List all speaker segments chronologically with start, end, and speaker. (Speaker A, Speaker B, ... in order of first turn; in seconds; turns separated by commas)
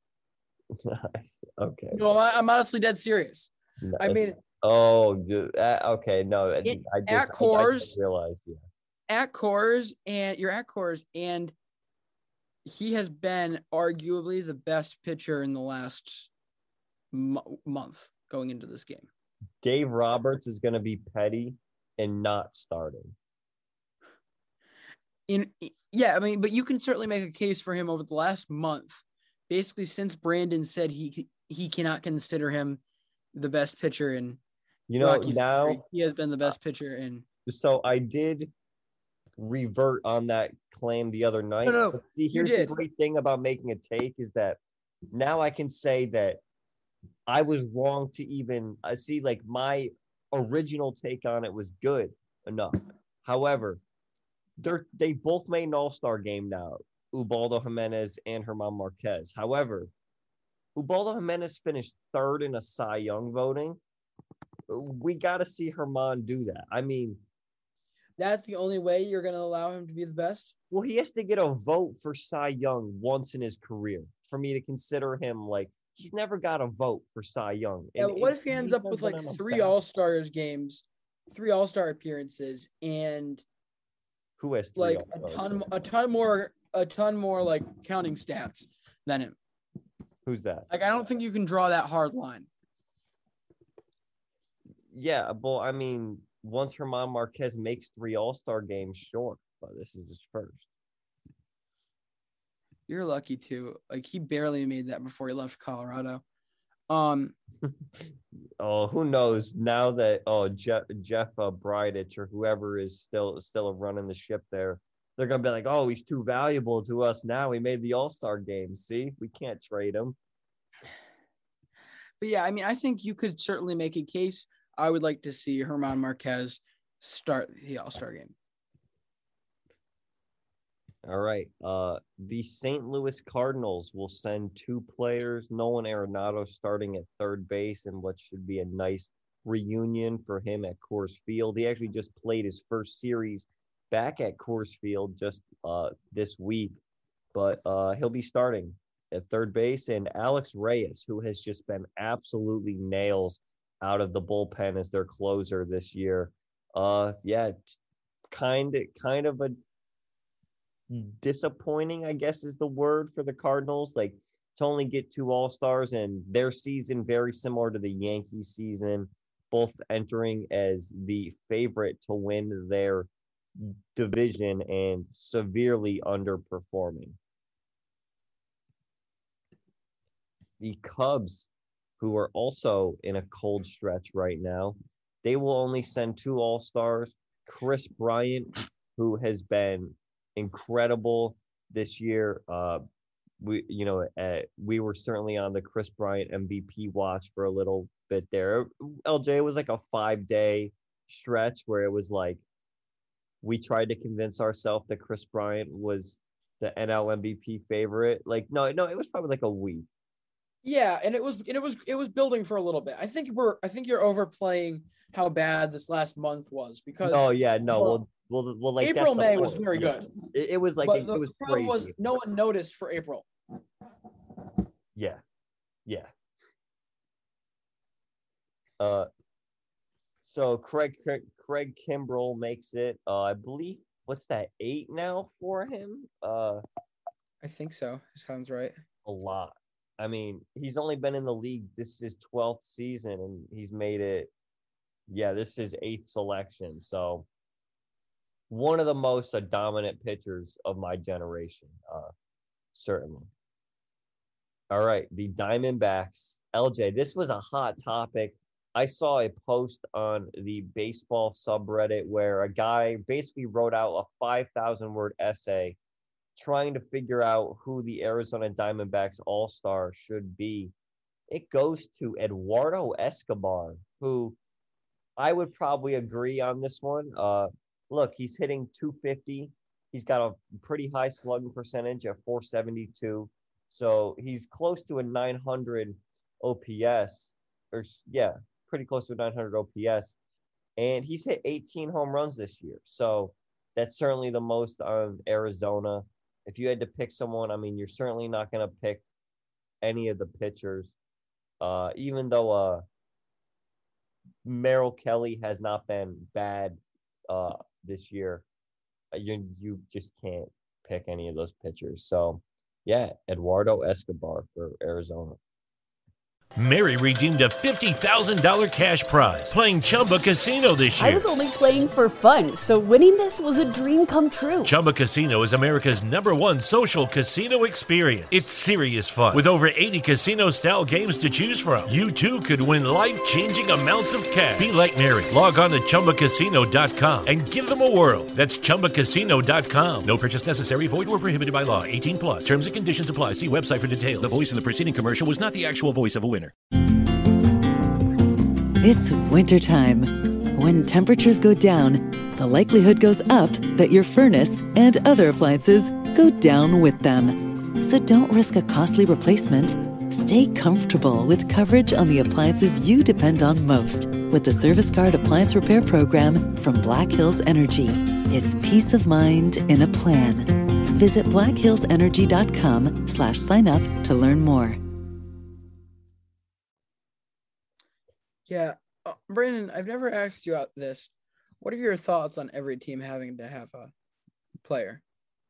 Speaker A: 0.7-2.0, Speaker B: 1.9-4.4, Speaker A: 3.8-8.6, Speaker B: 6.6-7.9, Speaker B: 9.1-11.5, Speaker B: 12.7-16.3, Speaker B: 17.1-19.1, Speaker A: 19.6-23.1, Speaker B: 25.3-32.8, Speaker B: 33.3-34.4, Speaker A: 34.9-35.8, Speaker B: 35.0-37.3, Speaker A: 37.5-38.5, Speaker A: 39.4-44.6, Speaker B: 41.6-42.8, Speaker A: 45.1-46.4, Speaker A: 47.3-53.8, Speaker A: 54.6-59.9, Speaker A: 60.7-63.8, Speaker A: 64.7-67.2, Speaker B: 68.2-70.5, Speaker A: 70.7-79.7, Speaker B: 78.0-83.4, Speaker A: 84.4-85.6, Speaker B: 84.8-89.4, Speaker A: 90.2-90.7, Speaker B: 90.7-92.5, Speaker A: 94.9-100.7, Speaker B: 102.9-106.2, Speaker B: 106.9-107.4, Speaker A: 107.7-120.2, Speaker B: 122.2-128.3, Speaker A: 131.0-146.8, Speaker A: 147.3-157.8, Speaker A: 158.3-159.6, Speaker A: 160.9-177.2, Speaker A: 180.6-192.8, Speaker A: 193.4-202.4, Speaker A: 203.4-209.9, Speaker B: 210.6-218.0, Speaker A: 217.0-221.9, Speaker B: 218.8-220.1, Speaker B: 220.8-223.3, Speaker A: 224.9-225.2, Speaker A: 228.8-229.1, Speaker A: 230.2-236.6, Speaker B: 237.4-238.8, Speaker A: 239.1-244.3, Speaker A: 245.1-247.3, Speaker A: 248.5-252.1, Speaker A: 252.7-253.3, Speaker A: 254.7-265.8, Speaker A: 266.4-270.7, Speaker A: 271.3-274.4, Speaker A: 275.2-290.1, Speaker A: 290.8-299.0, Speaker A: 299.8-300.9, Speaker A: 301.6-302.8, Speaker A: 304.4-308.4, Speaker A: 309.1-315.4, Speaker C: 316.6-321.3, Speaker D: 321.0-324.7, Speaker C: 324.6-346.5, Speaker E: 348.8-374.8, Speaker B: 378.5-383.9, Speaker B: 384.6-385.0